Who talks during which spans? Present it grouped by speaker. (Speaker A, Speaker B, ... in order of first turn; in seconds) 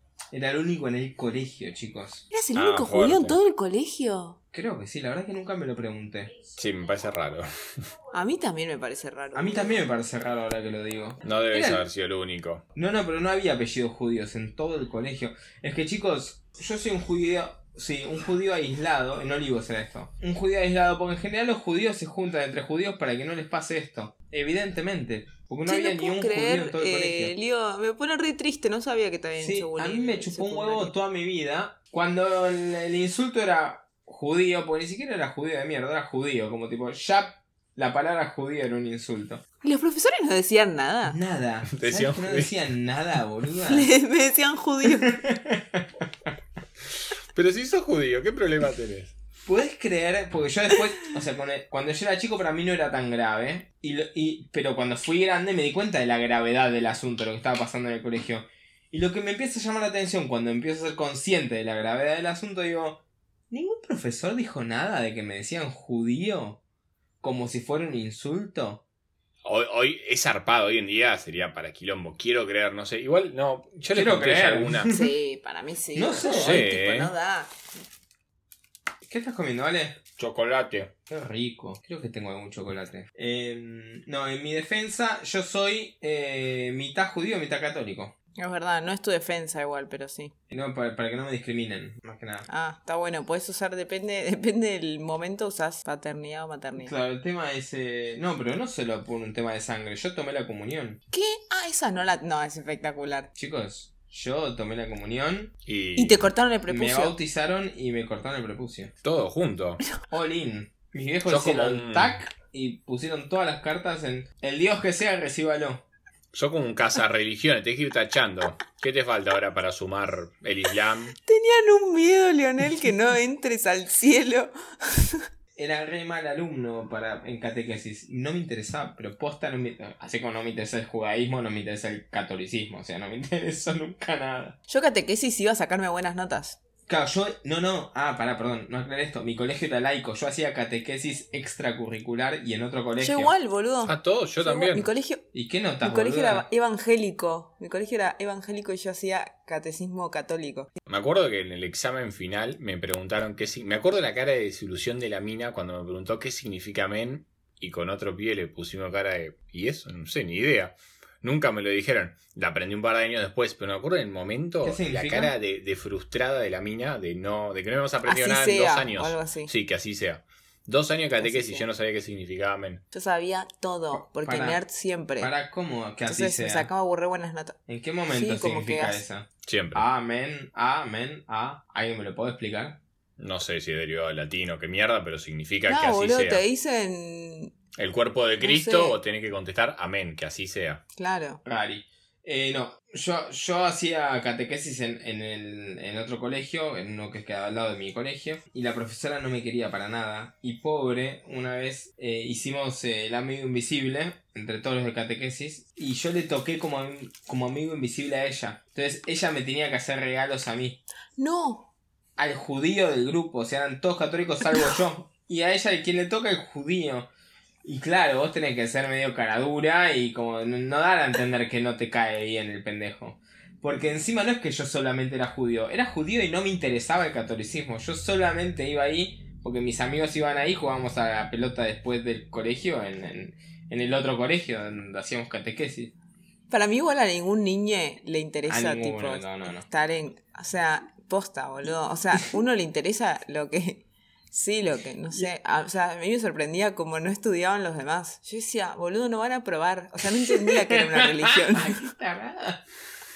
Speaker A: 0.3-2.2, 4.5-6.3, 9.3-11.8, 12.7-27.3, 29.4-39.4, 41.0-43.9, 44.8-46.3, 49.5-63.0, 63.5-66.6, 67.2-68.8, 73.9-75.1, 75.9-76.7, 79.0-80.0, 81.1-88.1, 90.5-92.5, 96.8-101.0, 103.3-105.5, 106.7-108.9, 110.1-115.8, 125.5-134.6, 136.9-143.3, 145.3-146.5, 164.6-165.3, 173.9-174.6, 175.2-176.7, 177.7-182.8, 191.4-210.8, 212.2-217.1, 217.6-235.9, 238.5-239.7, 250.2-252.6
Speaker B: 2.3-4.4, 8.1-9.8, 25.7-30.9, 39.6-41.2, 43.7-45.2, 74.9-77.6, 88.4-90.3, 92.5-96.9, 101.1-103.3, 106.0-107.1, 121.3-125.2, 134.7-136.6, 143.0-145.3, 145.8-150.7, 168.1-169.5, 171.2-171.7, 172.9-175.3, 176.1-177.6, 178.1-179.0, 185.7-187.5, 188.4-189.0, 191.0-191.4, 211.2-211.7, 236.5-251.9
Speaker C: 2.5-3.4, 6.5-7.8, 11.2-12.6, 41.7-42.5, 47.3-49.1, 69.4-74.9, 76.2-77.1, 80.2-80.9, 105.7-106.3, 109.0-109.8, 111.2-112.2, 116.3-121.2, 143.8-144.9, 150.8-172.8, 179.4-179.8, 183.2-186.4, 187.7-190.8